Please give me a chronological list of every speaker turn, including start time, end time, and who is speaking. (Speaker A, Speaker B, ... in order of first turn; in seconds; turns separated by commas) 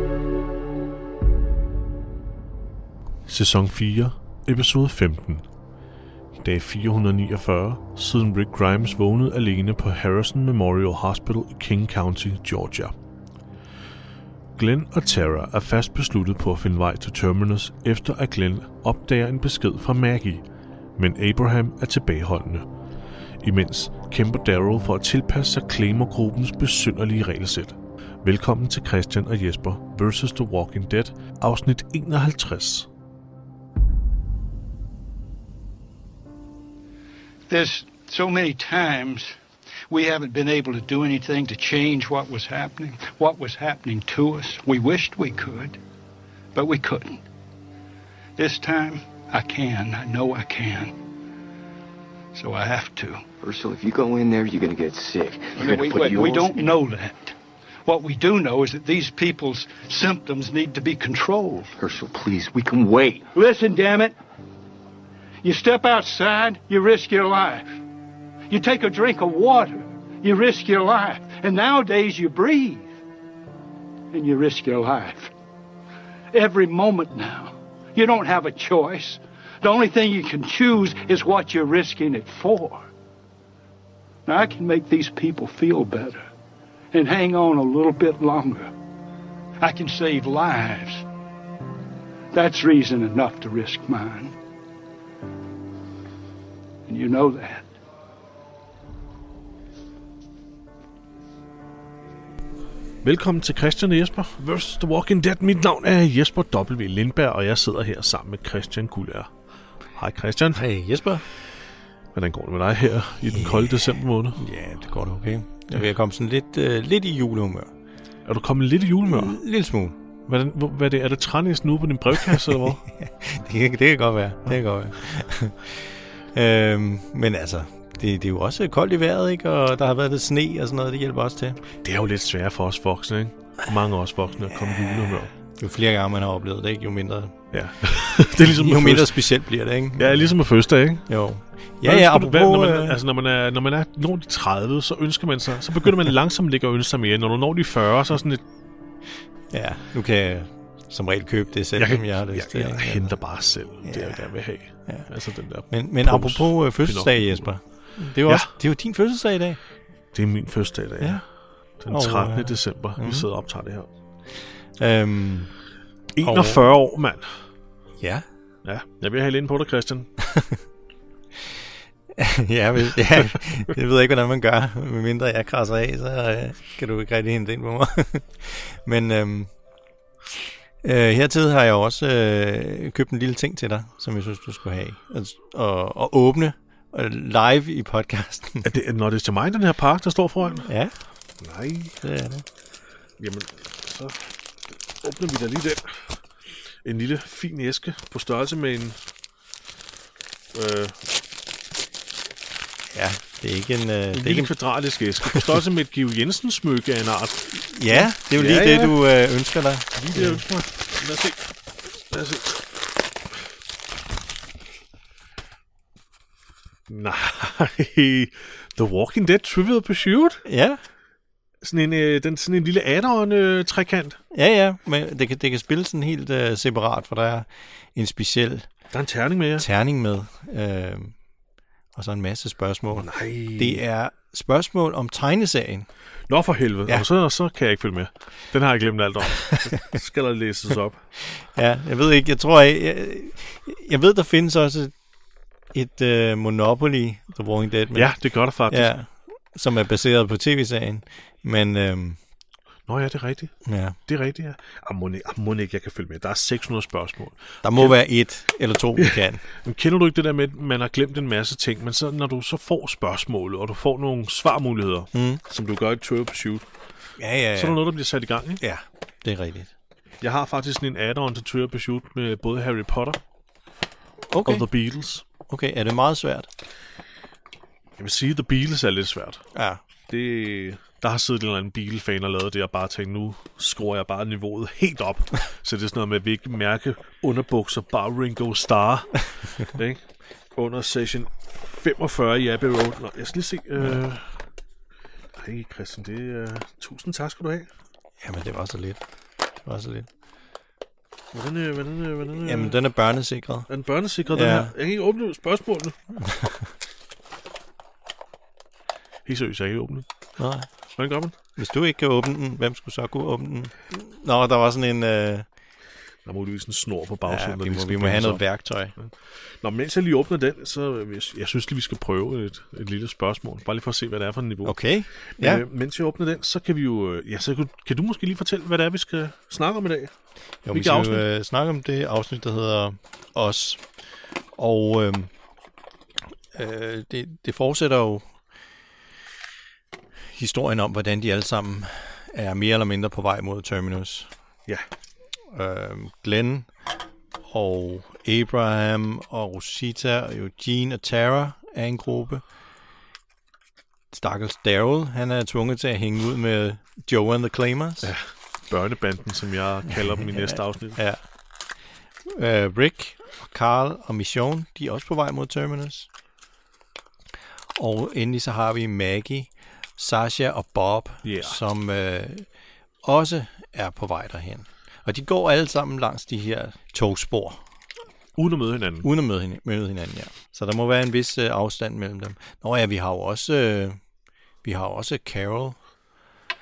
Speaker A: 3.3-5.4, Speaker A: 6.4-12.9, Speaker A: 14.6-20.4, Speaker A: 20.9-22.7, Speaker A: 23.4-32.9, Speaker B: 37.5-39.4, Speaker B: 39.9-45.8, Speaker B: 46.5-47.2, Speaker B: 48.4-50.9, Speaker B: 52.3-53.2, Speaker C: 53.4-56.8, Speaker B: 55.5-61.7, Speaker C: 61.8-63.3, Speaker B: 63.3-64.2, Speaker B: 65.4-67.7, Speaker B: 68.5-72.9, Speaker B: 74.1-75.3, Speaker B: 76.3-82.9, Speaker B: 84.2-86.3, Speaker B: 86.9-88.7, Speaker B: 89.6-91.0, Speaker B: 92.3-94.3, Speaker B: 96.9-97.7, Speaker A: 103.0-109.3, Speaker A: 110.0-110.6, Speaker D: 110.5-111.2, Speaker A: 112.1-114.4, Speaker D: 113.3-117.7, Speaker A: 118.2-119.3, Speaker D: 119.0-120.0, Speaker A: 120.3-122.8, Speaker D: 122.2-131.6, Speaker A: 131.8-135.3, Speaker D: 134.5-137.3, Speaker A: 137.5-139.2, Speaker D: 138.4-140.3, Speaker A: 140.0-141.1, Speaker D: 141.1-143.0, Speaker A: 141.8-148.4, Speaker D: 149.5-153.2, Speaker A: 151.8-157.5, Speaker D: 153.8-154.3, Speaker D: 155.7-159.6, Speaker A: 158.2-158.5, Speaker A: 160.1-161.2, Speaker A: 161.8-163.9, Speaker D: 161.9-163.3, Speaker D: 164.8-165.5, Speaker A: 166.1-167.3, Speaker D: 166.2-166.7, Speaker D: 168.0-168.2, Speaker A: 168.6-170.1, Speaker D: 170.2-170.6, Speaker D: 172.1-179.5, Speaker D: 180.8-188.7, Speaker A: 188.6-190.7, Speaker D: 190.6-190.9, Speaker A: 191.4-192.0, Speaker D: 192.0-192.4, Speaker A: 193.2-194.3, Speaker A: 195.0-196.2, Speaker A: 196.8-199.0, Speaker A: 200.5-201.0, Speaker D: 202.9-204.5, Speaker A: 204.1-209.0, Speaker D: 207.5-210.4, Speaker A: 209.9-211.4, Speaker A: 212.1-212.7, Speaker A: 216.9-220.4, Speaker D: 220.4-220.8, Speaker A: 221.6-224.2, Speaker D: 224.3-228.7, Speaker A: 228.9-229.7, Speaker D: 229.6-231.1, Speaker D: 231.9-235.9, Speaker A: 232.9-233.8, Speaker A: 236.3-241.0, Speaker D: 241.2-244.9, Speaker D: 245.7-248.1, Speaker A: 247.9-248.9, Speaker D: 248.7-252.2, Speaker A: 252.9-253.5, Speaker D: 253.6-254.0, Speaker A: 254.1-257.9, Speaker D: 257.6-259.4, Speaker A: 259.0-266.7, Speaker D: 265.1-265.4, Speaker D: 267.2-267.8, Speaker A: 267.5-268.6, Speaker D: 268.6-269.7, Speaker A: 270.2-273.2, Speaker D: 274.3-274.7, Speaker A: 274.4-275.2, Speaker D: 275.5-276.5, Speaker A: 278.0-279.4, Speaker D: 279.5-279.8, Speaker A: 280.1-290.0, Speaker A: 290.5-294.4, Speaker A: 295.4-297.7, Speaker D: 298.2-299.0, Speaker D: 299.6-300.1, Speaker A: 301.3-302.8, Speaker D: 302.3-303.7, Speaker A: 303.7-306.0, Speaker D: 304.3-304.7, Speaker D: 306.1-306.7, Speaker A: 309.2-310.1, Speaker D: 310.4-310.7, Speaker A: 310.9-311.3, Speaker D: 311.6-315.5, Speaker A: 316.2-318.4, Speaker D: 317.2-318.9, Speaker A: 319.0-330.1, Speaker D: 324.6-325.6, Speaker D: 330.6-333.9, Speaker A: 330.7-331.2, Speaker D: 334.5-335.3, Speaker D: 336.5-338.3, Speaker D: 340.3-344.3, Speaker D: 345.5-346.7, Speaker D: 347.5-352.4, Speaker D: 354.1-358.1, Speaker A: 358.0-361.0, Speaker D: 360.1-361.2, Speaker D: 362.2-366.1, Speaker D: 367.7-372.4, Speaker A: 371.2-371.6, Speaker D: 373.0-377.6, Speaker A: 378.4-379.1, Speaker D: 379.0-384.0, Speaker D: 384.6-385.8